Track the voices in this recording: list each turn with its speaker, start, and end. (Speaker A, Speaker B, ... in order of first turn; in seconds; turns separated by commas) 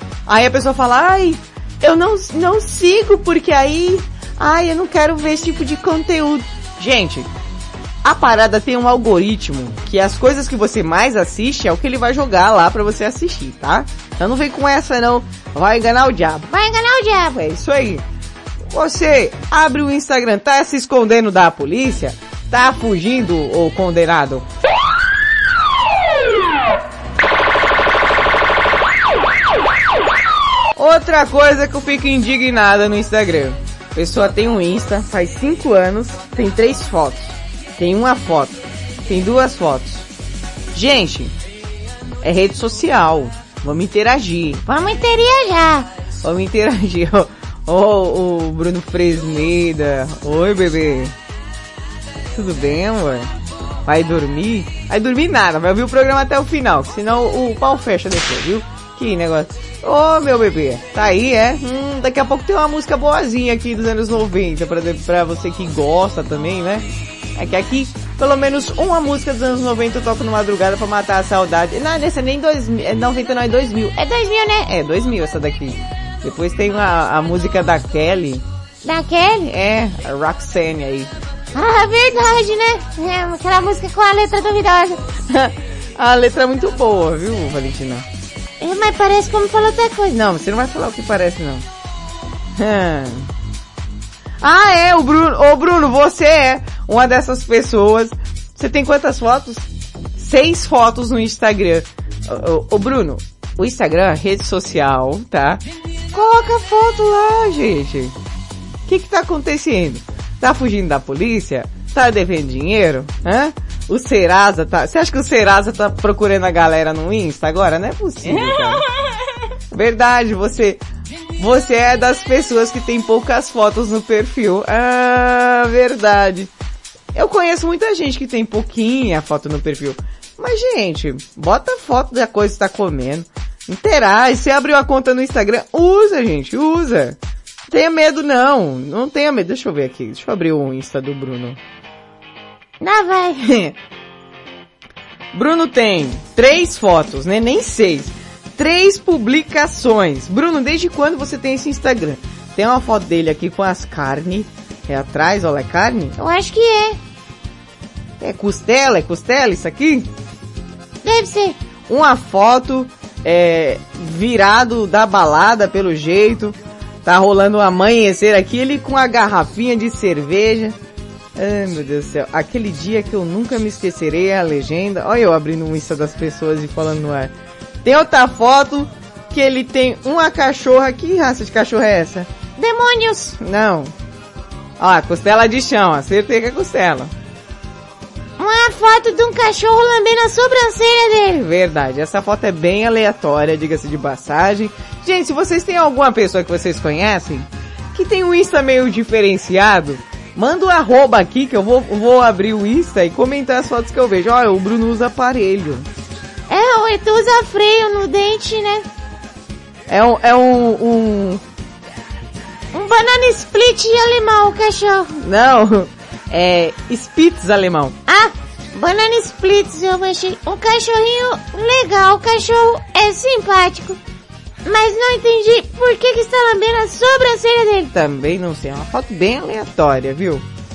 Speaker A: 0.3-7.3, Speaker A: 8.0-16.5, Speaker B: 16.5-17.4, Speaker A: 17.4-18.0, Speaker A: 18.7-24.4, Speaker A: 30.8-40.1, Speaker A: 40.7-41.3, Speaker A: 42.2-44.7, Speaker B: 44.7-45.9, Speaker A: 46.2-51.1, Speaker A: 52.3-53.3, Speaker A: 53.9-78.4, Speaker B: 78.8-79.5, Speaker A: 79.5-81.1, Speaker B: 81.5-85.0, Speaker A: 85.3-88.0, Speaker B: 88.6-90.2, Speaker A: 90.2-91.7, Speaker A: 92.6-93.3, Speaker A: 94.4-99.7, Speaker A: 100.2-105.6, Speaker A: 106.1-108.1, Speaker A: 108.9-118.8, Speaker A: 119.7-120.8, Speaker A: 121.4-126.5, Speaker A: 127.1-137.2, Speaker A: 137.7-141.6, Speaker B: 142.8-143.4, Speaker A: 143.4-143.8, Speaker A: 145.3-156.2, Speaker B: 156.2-157.0, Speaker A: 158.2-160.1, Speaker B: 161.0-161.6, Speaker A: 161.9-170.8, Speaker A: 171.4-177.3, Speaker A: 177.8-182.3, Speaker B: 182.6-183.4, Speaker A: 183.4-183.9, Speaker A: 184.8-187.1, Speaker B: 188.4-191.4, Speaker A: 191.4-205.9, Speaker B: 206.5-208.9, Speaker A: 209.9-211.4, Speaker B: 212.7-215.2, Speaker A: 215.2-218.0, Speaker B: 218.1-224.0, Speaker B: 224.7-227.9, Speaker A: 227.9-230.4